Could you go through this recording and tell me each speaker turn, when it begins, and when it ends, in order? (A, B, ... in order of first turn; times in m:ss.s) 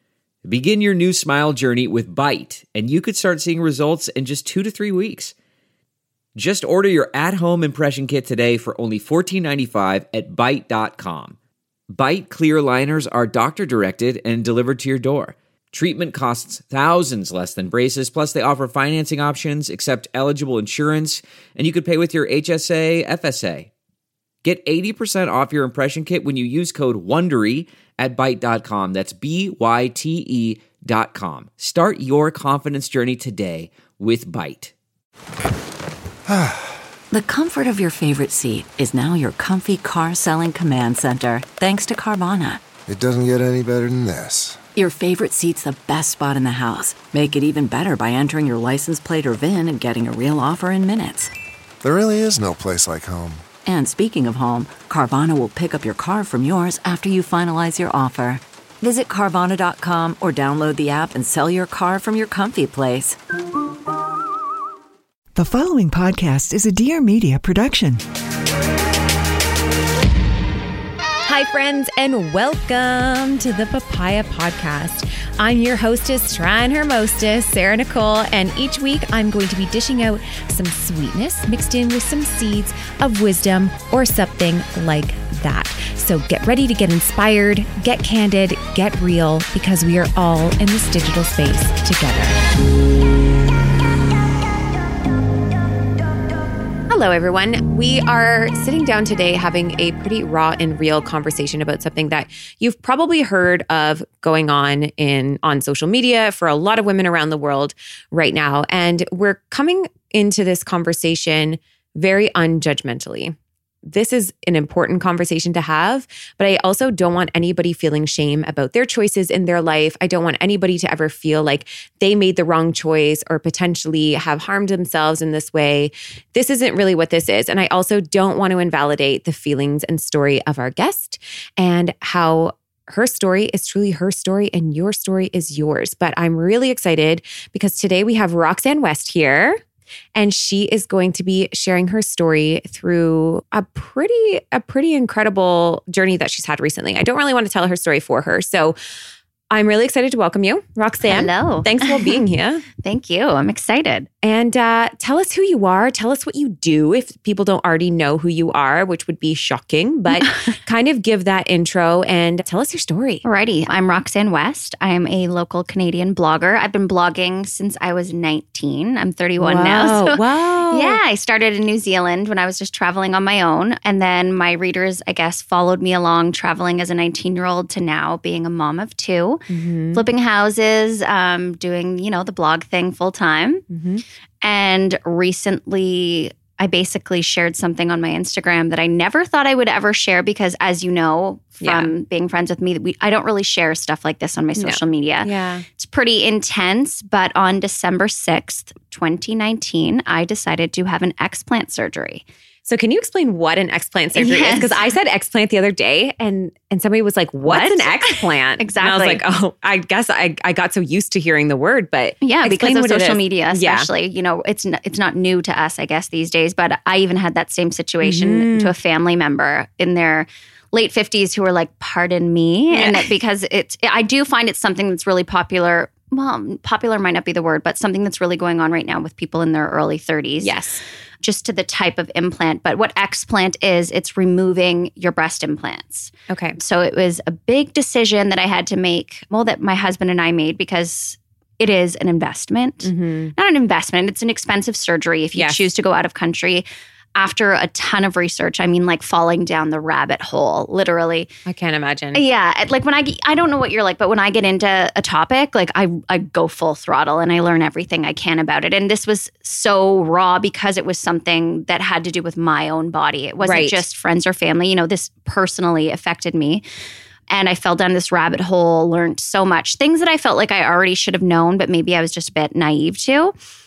0:00.4-0:05.3 A
0:06.4-0:11.4 A
0:11.9-0:23.7 A
0:24.4-0:34.7 A
0:36.3-0:36.6 B
0:37.1-0:42.6 C
0:42.9-0:44.6 B
0:44.8-0:51.3 C
0:51.8-0:53.4 B
0:53.6-1:03.2 C
1:05.4-1:08.0 D
1:11.2-1:32.4 E
1:36.9-2:19.6 E
2:20.1-2:28.8 E
2:29.5-2:32.6 E
2:31.1-2:32.2 F
2:32.8-2:34.1 F
2:34.2-2:43.2 E
2:40.2-2:40.5 F
2:43.2-3:03.6 F
2:49.4-2:51.0 E
2:59.5-3:00.0 E
3:03.7-3:04.0 E
3:04.4-3:22.2 F
3:11.6-3:11.9 E
3:14.6-3:15.7 E
3:22.6-3:33.9 E
3:24.2-3:24.8 F
3:27.5-3:29.2 F
3:32.2-3:50.5 F
3:38.0-3:38.7 E
3:42.7-3:43.1 E
3:50.4-3:50.8 E
3:51.2-4:11.3 F
3:56.3-3:56.6 E
4:02.8-4:03.3 E
4:05.4-4:05.6 E
4:11.5-4:12.2 E
4:12.1-4:26.6 F
4:23.4-4:23.8 E
4:27.3-4:33.3 F